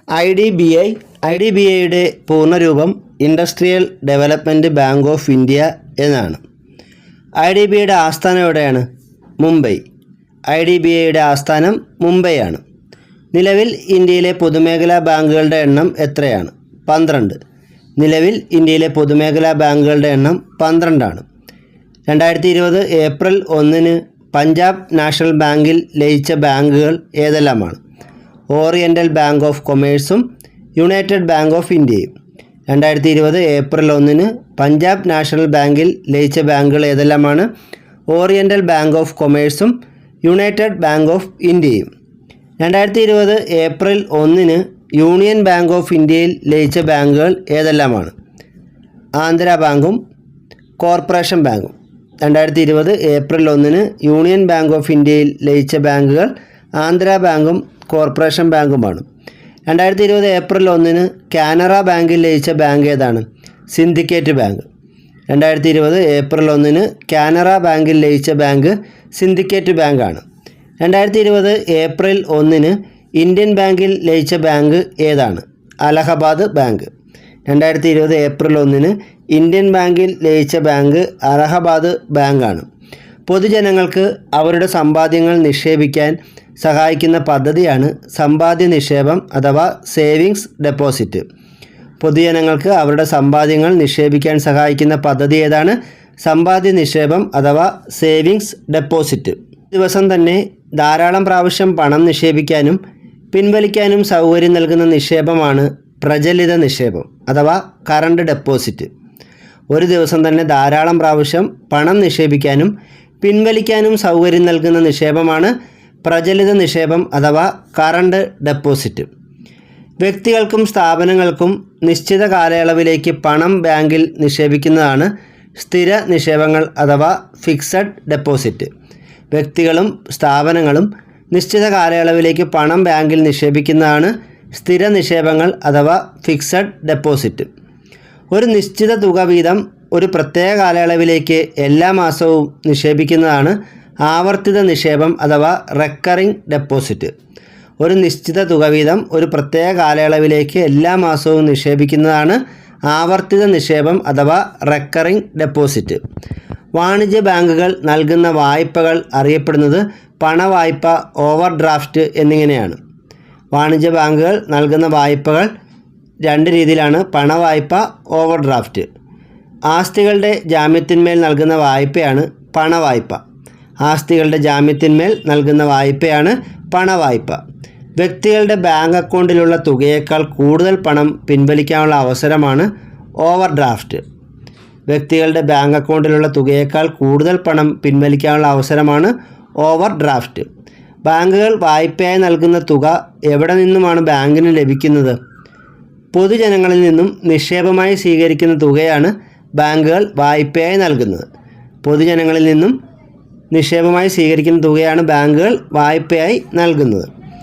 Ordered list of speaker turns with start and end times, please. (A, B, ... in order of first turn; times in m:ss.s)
0:00.2-0:06.4 A
0:07.4-0:08.9 A
0:09.4-0:09.8 A
0:10.5-0:12.6 A
0:13.3-0:17.4 A
0:18.0-0:21.2 A
0:22.1-0:27.8 A
0:28.5-0:30.2 A
0:30.8-0:32.1 A
0:32.7-0:37.5 A
0:38.1-0:41.9 A
0:42.6-0:48.1 A
0:49.2-0:50.0 A
0:50.8-0:59.0 A
0:59.7-1:04.7 A
1:05.3-1:10.2 A
1:10.8-1:16.9 A
1:17.5-1:22.7 A
1:23.3-1:31.2 A
1:32.0-1:42.8 A
1:43.3-1:48.9 A
1:49.7-1:55.5 A
1:56.0-1:59.1 A
2:00.0-2:08.7 A
2:09.3-2:17.5 A
2:18.3-2:27.1 A
2:27.8-2:36.0 A
2:36.8-2:42.8 A
2:43.5-2:45.5 A
2:46.2-2:48.9 A
2:49.7-2:53.2 A
2:53.8-2:57.4 A
2:58.0-3:02.7 A
3:03.2-3:04.0 A
3:04.9-3:10.5 A
3:11.0-3:15.2 A
3:16.1-3:21.3 A
3:21.8-3:22.8 A
3:23.5-3:27.1 A